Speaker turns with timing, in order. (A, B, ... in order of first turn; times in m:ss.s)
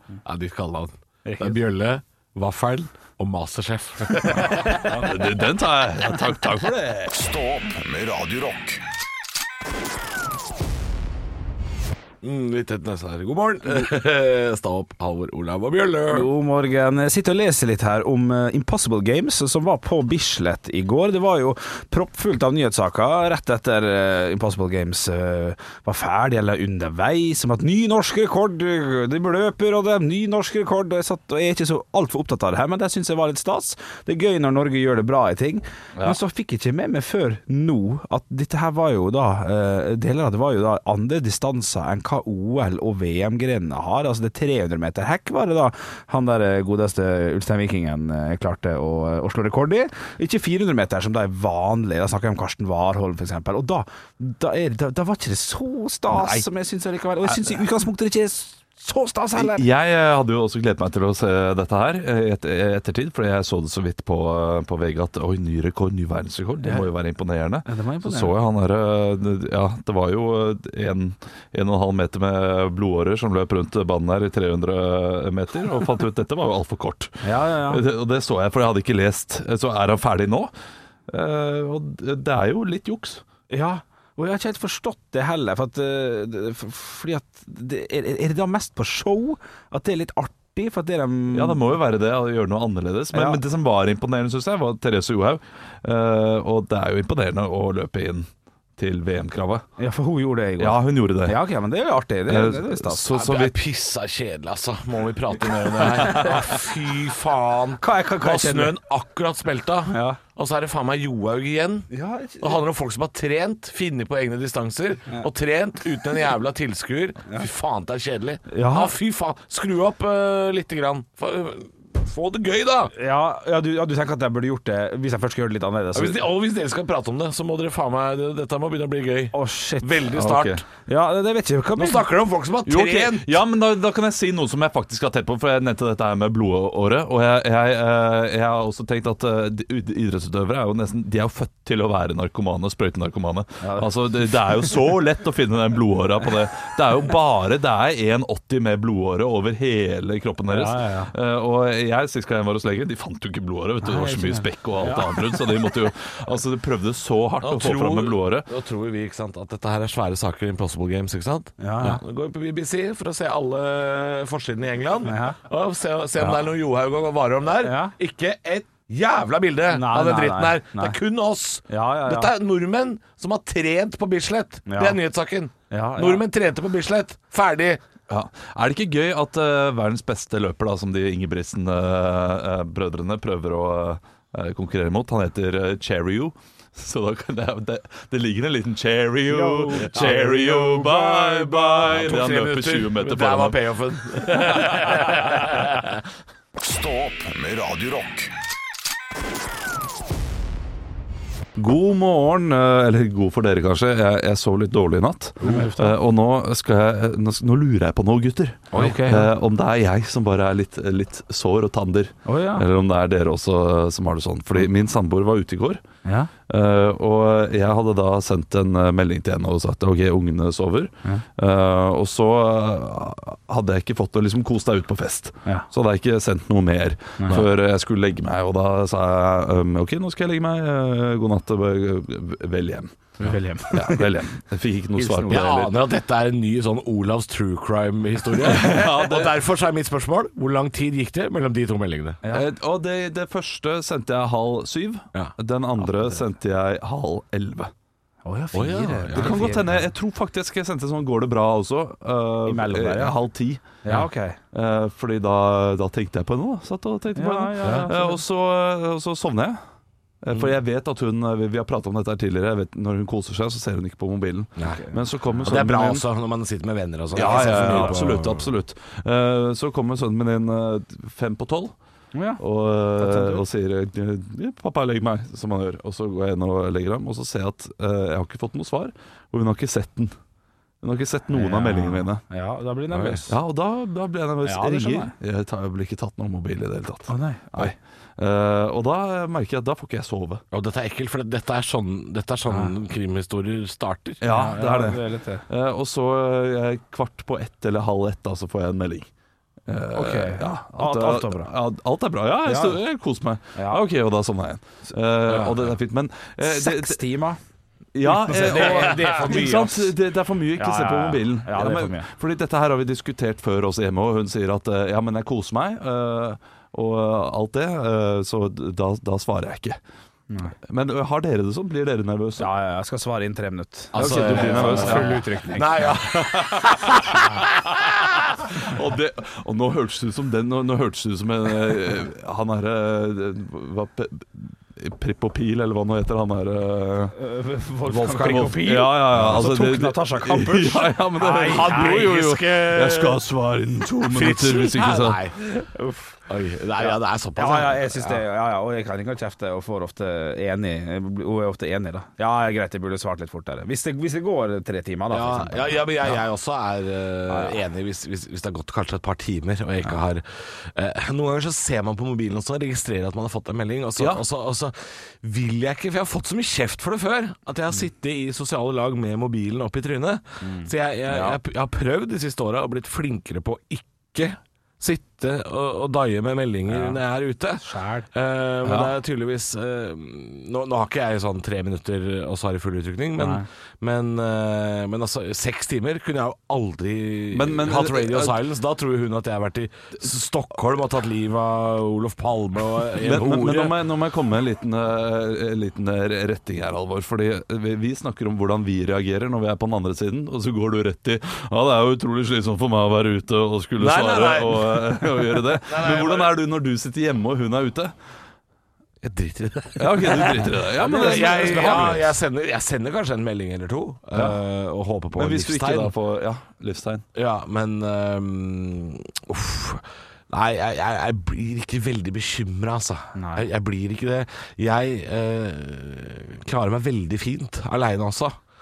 0:00.2-0:04.9 A
0:01.2-0:01.6 B
0:04.8-0:07.1 C
0:07.1-0:08.8 D
0:12.2-0:16.3 A
0:16.1-0:59.6 B
0:56.1-0:56.4 C
0:59.4-1:20.5 C
1:06.6-1:06.9 B
1:07.6-1:08.3 B
1:17.2-1:17.8 B
1:21.1-1:23.2 C
1:23.5-1:31.7 B
1:31.3-1:39.7 C
1:33.1-1:33.4 B
1:39.8-1:43.1 B
1:40.6-1:41.4 C
1:42.3-1:43.6 C
1:43.1-2:02.9 A
1:47.8-1:48.8 B
1:49.9-1:50.2 B
1:51.9-1:52.6 B
1:58.5-1:58.9 B
2:02.9-2:06.2 B
2:05.9-2:10.6 A
2:09.3-2:10.1 B
2:10.1-2:10.6 C
2:10.8-2:12.0 B
2:11.8-2:13.3 A
2:12.6-2:38.5 C
2:23.6-2:23.9 B
2:30.5-2:31.1 B
2:33.8-2:35.4 B
2:37.4-2:57.8 A
2:41.6-2:42.0 B
2:45.0-2:45.4 B
2:47.6-2:47.9 B
2:49.7-2:51.0 B
2:51.7-2:52.3 B
2:54.7-2:55.0 B
2:55.7-2:56.2 B
2:58.1-3:13.6 C
3:09.3-3:11.9 B
3:11.8-3:16.0 A
3:14.2-3:15.0 C
3:16.6-3:18.3 D
3:21.6-3:35.8 C
3:25.4-3:26.0 B
3:28.7-3:29.3 B
3:32.2-3:32.6 B
3:36.0-3:36.3 B
3:36.5-3:53.2 C
3:47.2-3:47.4 B
3:53.2-3:54.2 B
3:53.7-3:55.7 C
3:55.0-3:55.5 B
3:55.3-4:02.2 A
3:58.4-3:59.3 C
4:02.2-4:02.5 B
4:02.3-4:07.7 C
4:08.2-4:09.8 B
4:08.5-4:09.5 A
4:09.1-4:13.8 C
4:12.4-4:13.2 B
4:13.8-4:14.4 B
4:14.5-4:19.6 C
4:17.1-4:18.2 B
4:17.6-4:17.9 A
4:20.2-4:26.0 C
4:24.6-4:25.0 B
4:25.4-4:28.5 A
4:27.1-4:31.8 C
4:27.2-4:28.0 B
4:32.1-4:32.4 B
4:32.4-4:40.2 C
4:32.9-4:33.4 B
4:40.8-4:42.2 C
4:41.3-4:43.4 B
4:42.9-4:43.2 A
4:43.3-4:50.4 C
4:44.4-4:45.1 B
4:47.1-4:47.7 B
4:50.5-4:54.3 A
4:54.2-4:59.1 C
4:54.3-4:55.4 B
4:59.7-5:07.0 C
4:59.9-5:01.5 B
5:02.4-5:02.8 B
5:03.5-5:03.8 B
5:05.3-5:05.7 A
5:06.4-5:07.4 B
5:07.9-5:19.8 C
5:08.0-5:09.9 B
5:08.3-5:09.7 A
5:10.6-5:12.1 B
5:20.3-5:20.5 B
5:20.6-5:22.5 C
5:22.4-5:26.0 B
5:23.9-5:28.3 A
5:24.0-5:25.3 C
5:25.8-5:27.8 C
5:28.5-5:37.2 C
5:37.1-5:42.1 B
5:37.8-5:38.6 A
5:38.2-5:45.2 C
5:39.1-5:39.4 A
5:41.3-5:43.2 A
5:44.0-5:45.7 A
5:45.7-5:46.0 B
5:46.2-5:48.2 A
5:46.8-5:55.8 B
5:55.1-6:33.7 A
5:57.3-5:57.6 B
6:10.4-6:11.4 B
6:16.7-6:17.0 B
6:17.6-6:18.1 B
6:18.6-6:19.0 C
6:23.2-6:23.4 B
6:27.3-6:28.4 C
6:33.0-6:47.9 C
6:43.8-6:46.3 A
6:49.0-6:55.9 A
6:49.8-6:52.0 C
6:50.8-6:52.1 B
6:55.1-6:57.0 C
6:57.1-7:08.4 A
7:03.1-7:03.4 B